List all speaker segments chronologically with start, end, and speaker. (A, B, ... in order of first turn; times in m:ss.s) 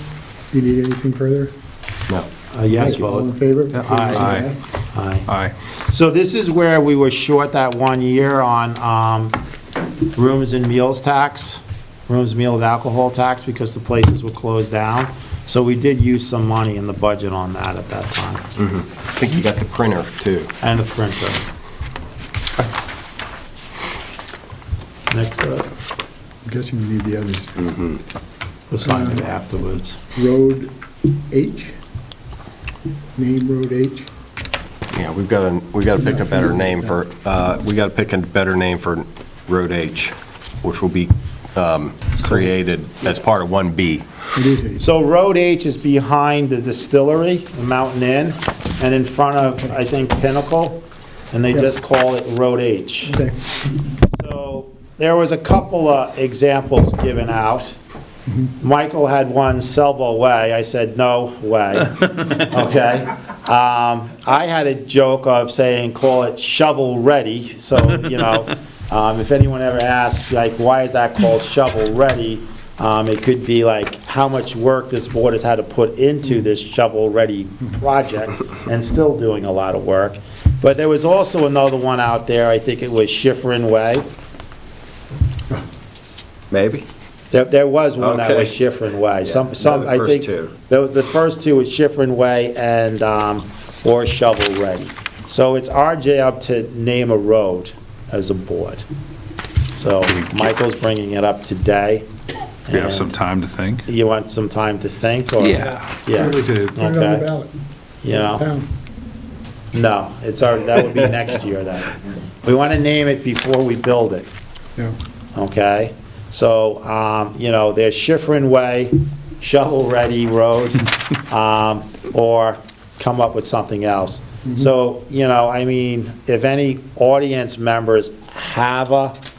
0:00.5-0:01.5 A
0:02.5-0:03.3 B
0:02.7-0:04.6 A
0:03.7-0:04.5 C
0:03.8-0:04.4 B
0:04.9-0:05.3 B
0:05.3-0:05.5 C
0:05.9-0:09.4 B
0:10.1-0:18.5 B
0:18.6-0:20.5 D
0:20.6-0:21.4 B
0:25.1-0:25.7 B
0:26.4-0:27.5 A
0:27.6-0:28.0 D
0:28.7-0:30.0 B
0:28.8-0:29.2 A
0:30.1-0:30.7 A
0:31.3-0:31.7 A
0:33.2-0:34.1 A
0:34.9-0:44.0 D
0:36.0-0:37.0 A
0:44.3-0:44.8 A
0:44.8-0:53.2 B
0:53.1-0:53.4 A
0:54.1-0:57.8 B
0:58.6-1:24.0 B
1:26.5-1:26.8 D
1:27.3-1:38.8 B
1:28.0-1:28.5 D
1:29.2-1:30.5 D
1:39.7-1:42.0 B
1:40.1-1:40.5 C
1:42.7-1:43.2 B
1:42.7-1:43.8 C
1:43.8-1:47.2 B
1:45.4-1:46.7 C
1:46.1-1:47.5 A
1:48.0-1:48.4 B
1:48.1-1:48.7 A
1:49.7-1:54.3 B
1:55.3-2:09.2 B